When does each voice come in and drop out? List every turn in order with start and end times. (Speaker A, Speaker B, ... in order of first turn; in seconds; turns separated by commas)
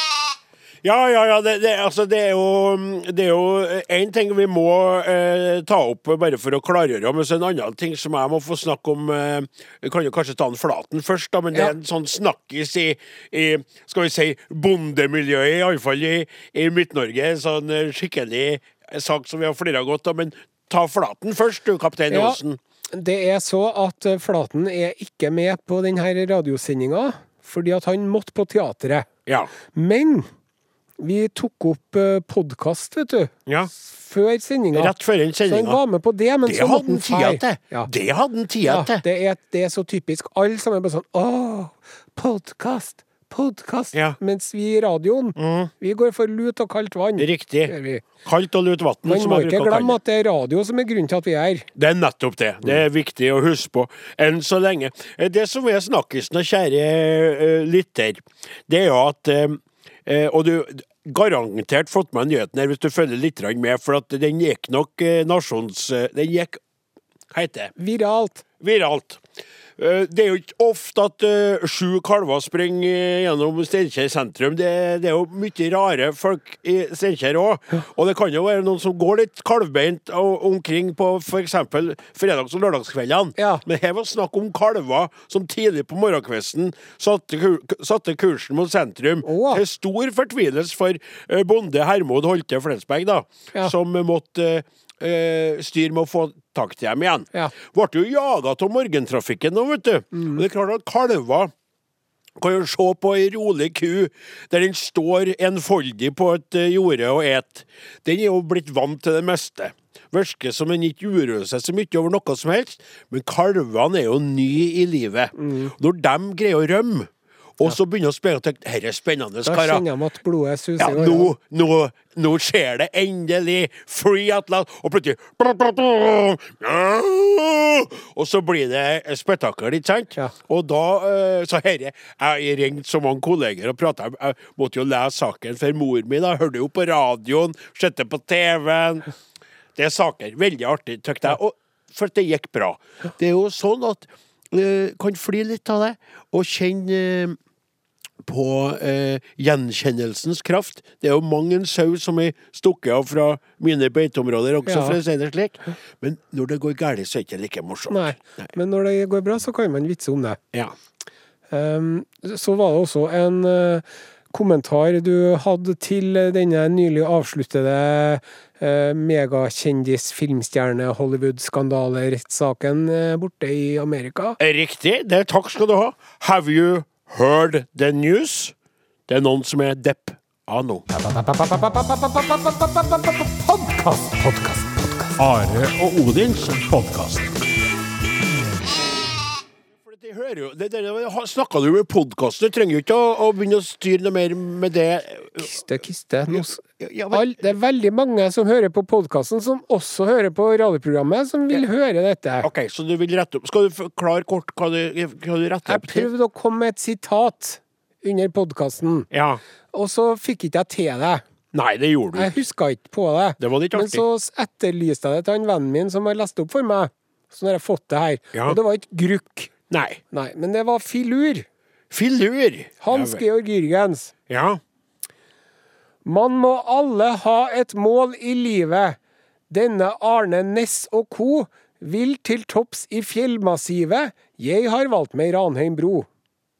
Speaker A: 0.8-22.6, Speaker B: 22.1-22.4, Speaker B: 22.9-29.1, Speaker B: 29.7-30.3, Speaker B: 31.0-34.9, Speaker A: 33.5-33.7, Speaker A: 34.8-35.8, Speaker B: 35.5-37.9, Speaker A: 36.5-39.0, Speaker B: 38.6-48.1, Speaker A: 45.4-45.7, Speaker A: 47.2-50.0, Speaker B: 49.1-51.7, Speaker A: 51.8-66.6, Speaker A: 67.3-67.7, Speaker B: 67.8-68.5, Speaker A: 68.6-69.2, Speaker A: 69.8-101.5, Speaker B: 83.4-83.6, Speaker B: 89.2-89.6, Speaker A: 102.4-119.8, Speaker B: 115.4-115.7, Speaker B: 119.5-121.3, Speaker A: 120.8-139.1, Speaker A: 139.8-147.4, Speaker A: 148.2-158.5, Speaker B: 154.7-155.0, Speaker B: 157.9-160.4, Speaker B: 161.5-174.4, Speaker A: 174.4-178.5, Speaker A: 179.1-180.8, Speaker B: 180.9-185.2, Speaker A: 185.2-187.4, Speaker A: 189.9-195.6, Speaker B: 195.4-202.5, Speaker A: 196.3-197.4, Speaker A: 202.4-206.1, Speaker B: 205.7-209.1, Speaker A: 209.1-209.4, Speaker B: 209.7-211.2, Speaker A: 211.5-212.4, Speaker B: 212.2-219.5, Speaker A: 213.4-214.0, Speaker A: 218.3-218.6, Speaker A: 219.7-220.0, Speaker B: 220.1-221.5, Speaker A: 221.9-223.2, Speaker B: 222.8-224.1, Speaker A: 224.3-224.6, Speaker B: 226.1-229.0, Speaker B: 229.5-236.1